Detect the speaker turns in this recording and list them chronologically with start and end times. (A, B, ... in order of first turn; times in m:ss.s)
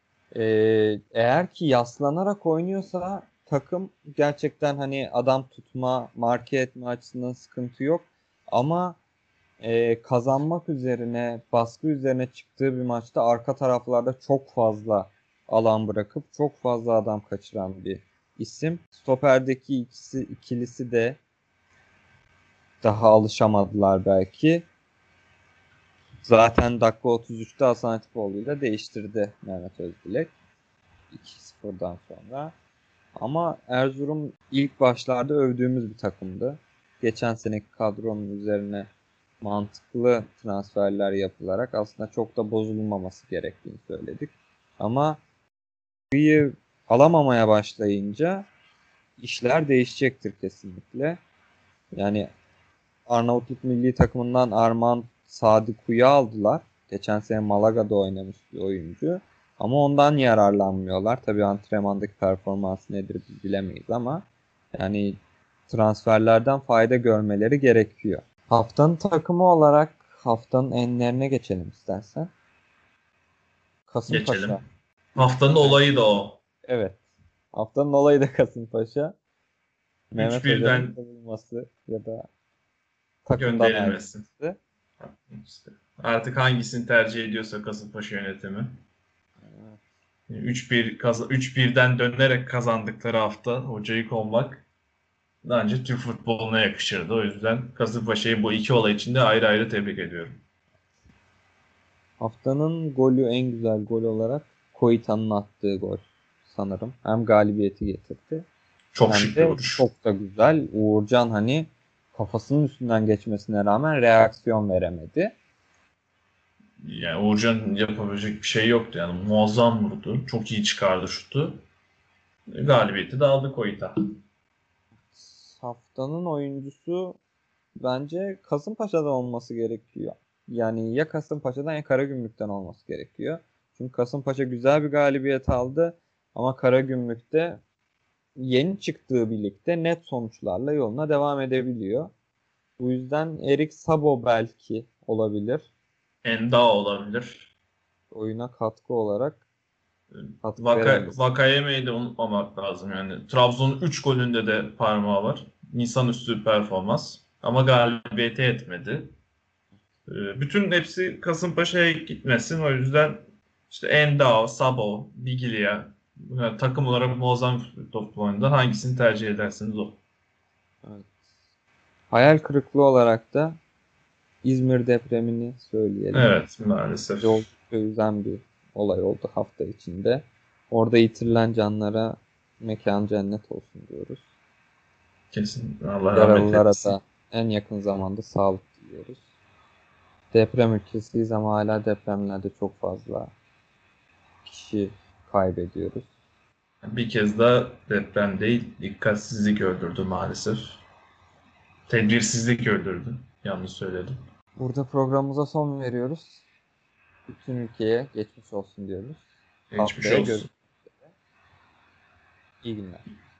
0:00.3-0:09.0 A
0:09.6-0:21.2 A
0:22.8-0:24.7 A
0:26.2-0:30.3 A
0:31.1-0:32.5 A
0:33.2-0:38.9 A
0:39.4-0:45.2 A
0:46.1-0:48.5 A
0:49.2-0:51.2 A
0:51.9-0:52.3 A
0:53.1-1:05.2 A
1:05.7-1:12.3 A
1:13.9-1:14.6 A
1:14.1-1:14.6 B
1:15.2-1:16.4 B
1:15.2-1:15.9 A
1:16.6-1:17.0 A
1:17.5-1:19.2 A
1:20.1-1:22.3 A
1:20.2-1:20.9 B
1:23.2-1:24.6 A
1:23.4-1:24.2 B
1:25.0-1:28.7 B
1:29.4-1:29.8 A
1:30.3-1:34.6 B
1:35.4-1:40.4 B
1:42.2-1:48.5 A
1:48.9-1:49.8 B
1:49.0-1:55.3 A
1:56.8-2:01.6 B
2:02.5-2:03.9 B
2:05.1-2:07.2 A
2:07.8-2:17.6 A
2:18.4-2:22.1 A
2:22.8-2:25.7 A
2:26.2-2:27.5 B
2:28.1-2:29.4 A
2:30.4-2:31.2 A
2:30.5-2:39.1 B
2:40.1-2:50.0 B
2:50.8-2:51.2 A
2:52.1-2:53.6 A
2:54.4-2:56.3 A
2:56.1-2:57.4 B
2:57.2-3:04.2 A
3:05.3-3:06.9 B
3:06.1-3:09.2 A
3:10.3-3:13.3 A
3:14.4-3:16.1 A
3:16.8-3:20.8 B
3:21.9-3:24.2 B
3:24.6-3:26.4 A
3:27.3-3:29.2 A
3:29.7-3:30.5 B
3:29.8-3:31.0 A
3:32.6-3:33.0 A